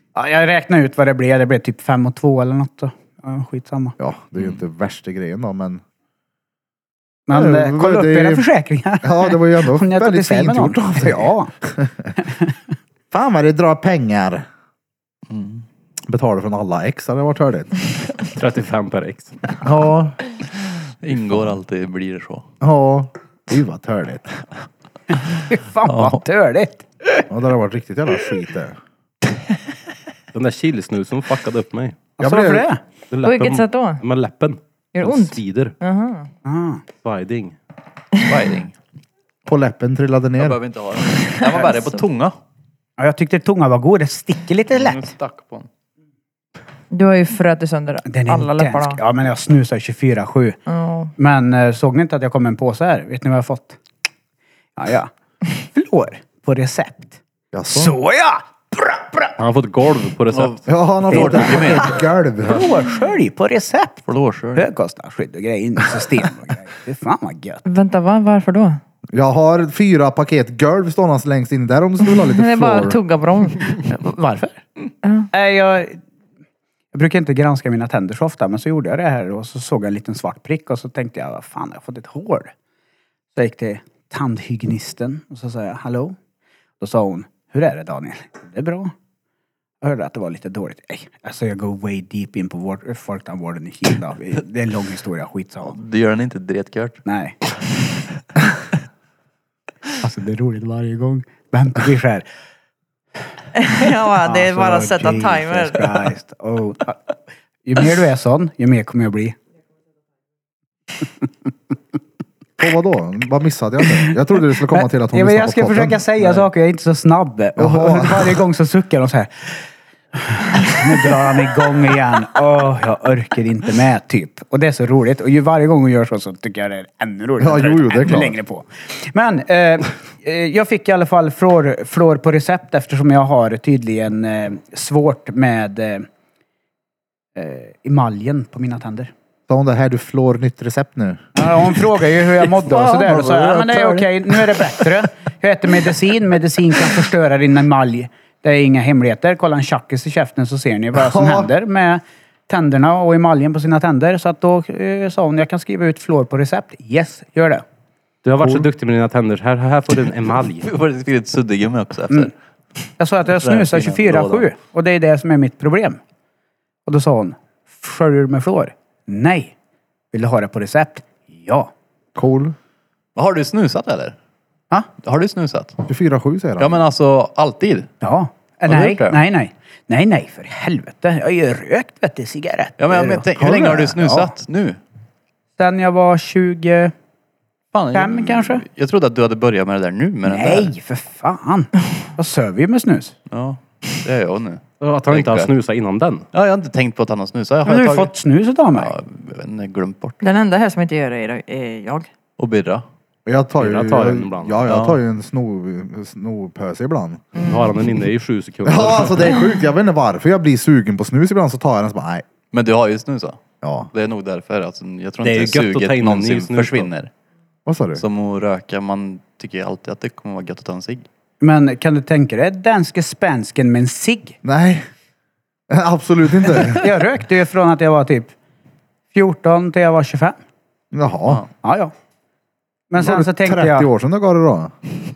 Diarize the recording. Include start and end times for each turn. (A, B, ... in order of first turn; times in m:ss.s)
0:00.2-0:04.0 A
0:04.0-0:05.8 B
0:07.3-0:11.5 A
0:07.3-0:08.5 B
0:09.0-0:12.1 B
0:12.2-0:12.6 A
0:13.1-0:14.5 B
0:15.3-0:15.6 C
0:16.1-0:17.8 B
0:18.3-0:19.4 D
0:19.6-0:20.2 B
0:21.0-0:22.5 C
0:22.6-0:24.3 B
0:25.3-0:27.2 A
0:25.8-0:26.2 C
0:27.3-0:28.8 B
0:30.3-0:32.0 D
0:32.2-0:32.7 B
0:32.2-0:32.8 A
0:33.1-0:35.8 D
0:33.2-0:34.0 E
0:34.9-0:36.3 E
0:36.4-0:36.8 A
0:37.0-0:37.6 D
0:38.2-0:38.7 C
0:39.5-0:40.6 B
0:40.4-0:42.4 C
0:41.4-0:41.8 E
0:43.0-0:45.1 A
0:44.7-0:45.7 C
0:46.9-0:49.0 E
0:48.1-0:50.6 A
0:50.7-0:51.1 E
0:51.2-0:53.8 A
0:54.8-0:57.2 A
0:57.5-0:58.0 B
0:57.7-0:59.4 A
0:59.4-1:00.6 D
1:00.3-1:02.0 C
1:00.7-1:02.7 B
1:01.1-1:01.9 A
1:02.4-1:07.6 A
1:04.1-1:04.7 C
1:07.6-1:08.8 E
1:09.1-1:13.0 B
1:12.1-1:13.8 E
1:13.8-1:14.7 A
1:15.0-1:15.3 E
1:15.3-1:16.0 A
1:16.9-1:22.5 A
1:23.4-1:26.2 A
1:26.8-1:28.9 A
1:29.8-1:35.8 A
1:35.6-1:37.0 C
1:37.1-1:37.4 A
1:40.0-1:42.2 A
1:43.6-1:46.0 E
1:44.2-1:49.4 A
1:52.6-1:56.5 B
1:54.7-1:59.6 A
1:57.6-1:58.4 B
2:00.2-2:16.1 A
2:07.4-2:08.4 B
2:17.4-2:19.1 A
2:19.5-2:21.2 B
2:21.4-2:37.6 A
2:22.6-2:24.7 B
2:30.9-2:31.5 B
2:38.2-2:40.7 D
2:40.6-2:42.3 C
2:43.0-2:46.0 A
2:43.3-2:44.5 C
2:46.9-2:49.5 A
2:50.1-2:51.7 A
2:52.2-2:52.6 B
2:53.2-2:54.2 C
2:55.0-2:55.8 C
2:55.9-2:56.8 B
2:56.6-2:57.9 C
2:58.0-3:03.3 A
2:58.7-2:59.2 C
3:02.8-3:04.8 C
3:03.4-3:04.2 B
3:05.6-3:06.9 A
3:07.7-3:10.7 C
3:07.9-3:08.7 A
3:10.3-3:13.2 A
3:13.3-3:15.5 C
3:14.8-3:16.3 D
3:16.3-3:18.1 C
3:17.6-3:18.9 A
3:18.7-3:20.2 C
3:20.2-3:22.1 E
3:22.4-3:22.8 C
3:23.3-3:27.2 B
3:23.6-3:24.6 D
3:24.7-3:25.0 C
3:27.4-3:27.7 E
3:27.4-3:29.4 D
3:28.6-3:32.2 B
3:32.5-3:33.4 C
3:33.6-3:33.9 B
3:33.9-3:37.1 C
3:35.2-3:36.9 D
3:37.7-3:38.0 B
3:38.0-3:41.1 C
3:41.4-3:44.4 A
3:44.4-3:44.9 B
3:45.7-3:46.9 B
3:46.7-3:48.3 A
3:49.1-3:50.4 A
3:50.9-3:51.4 B
3:51.6-3:51.9 A
3:52.9-3:53.9 A
3:53.0-3:54.8 B